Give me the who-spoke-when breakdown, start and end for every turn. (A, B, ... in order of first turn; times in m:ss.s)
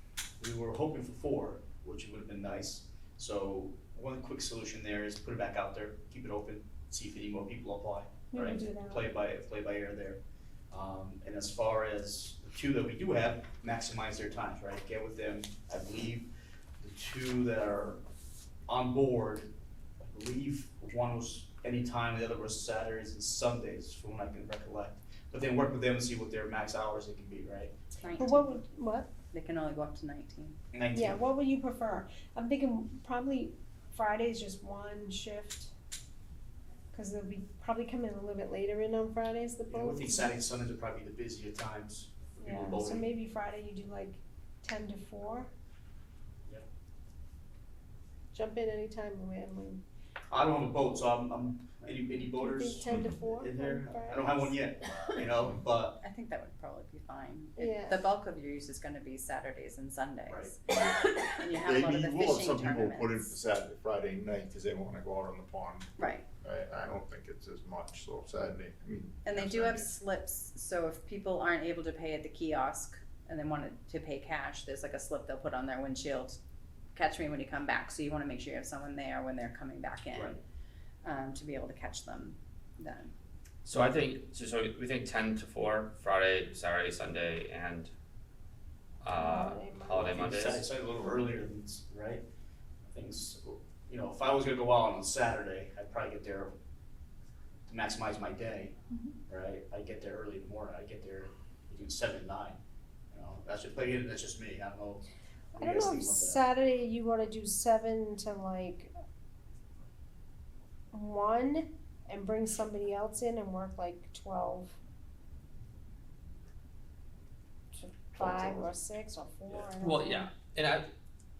0:00.4-0:10.2 A
0:08.3-0:09.0 B
0:10.7-0:18.0 A
0:18.7-0:27.7 A
0:28.0-0:28.6 C
0:28.2-0:29.1 B
0:29.3-0:30.6 C
0:30.7-0:31.2 A
0:30.9-0:35.7 B
0:36.9-0:40.3 B
0:39.7-0:43.1 A
0:42.4-0:45.5 B
0:48.3-0:49.8 B
0:50.3-0:56.0 A
0:52.0-0:55.1 B
0:56.0-1:03.3 C
0:57.6-0:58.0 B
1:00.3-1:00.5 A
1:01.5-1:09.9 D
1:06.0-1:06.2 C
1:09.2-1:16.4 C
1:16.9-1:20.4 C
1:20.1-1:20.4 A
1:21.0-1:23.1 C
1:23.6-1:27.9 E
1:29.0-1:30.7 E
1:29.1-1:30.3 B
1:29.9-1:32.2 A
1:32.9-1:36.5 A
1:37.7-1:38.8 A
1:39.3-1:42.6 A
1:43.1-1:45.0 A
1:45.6-1:46.4 A
1:45.6-1:48.9 B
1:50.9-1:54.8 B
1:57.7-2:00.3 B
1:58.2-1:58.7 D
1:59.8-2:00.9 E